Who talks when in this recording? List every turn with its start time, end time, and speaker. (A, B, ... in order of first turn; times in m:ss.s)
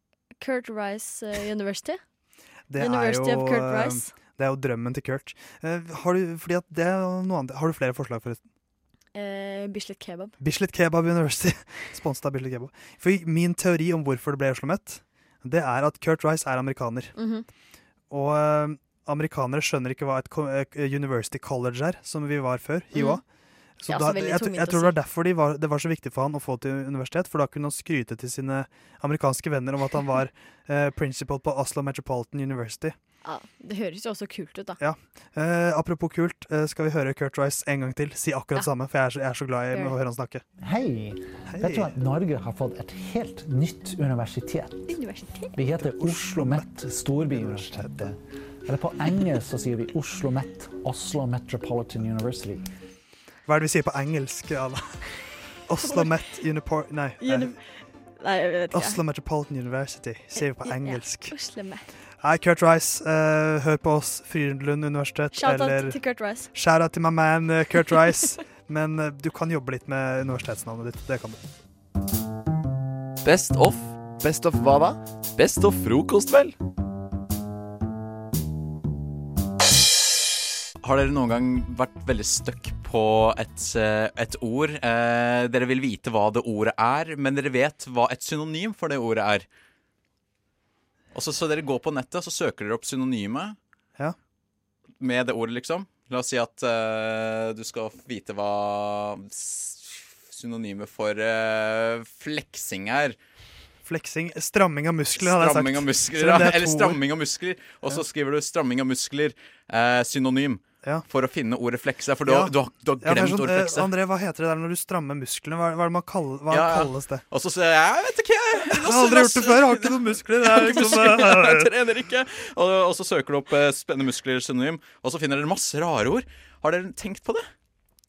0:00.4-0:02.0 A
0:02.7-0:08.4 B
0:02.8-0:04.1 A
0:09.2-0:10.3 A
0:10.4-0:17.2 B
0:17.2-0:17.5 A
0:18.1-0:23.2 B
0:23.0-0:23.2 A
0:23.8-0:33.0 B
0:23.9-0:25.0 A
0:33.2-0:34.8 A
0:34.8-0:40.4 B
0:40.6-0:44.9 C
0:41.5-0:41.9 B
0:44.9-0:45.6 A
0:45.6-0:52.6 C
0:46.0-0:46.7 B
0:47.2-0:48.0 B
0:53.5-0:55.0 B
0:55.7-0:57.6 B
0:55.8-0:56.1 A
0:57.2-0:57.6 A
0:58.2-0:59.0 A
0:58.7-1:01.3 B
1:00.4-1:01.9 A
1:02.2-1:06.0 B
1:05.3-1:06.5 A
1:06.5-1:11.4 B
1:13.2-1:16.5 D
1:20.8-1:29.5 E
1:31.1-1:33.6 E
1:35.0-1:43.2 E
1:43.8-1:47.0 B
1:45.2-1:53.9 E
1:52.2-1:57.2 B
1:56.5-2:07.4 E
1:58.6-2:01.7 B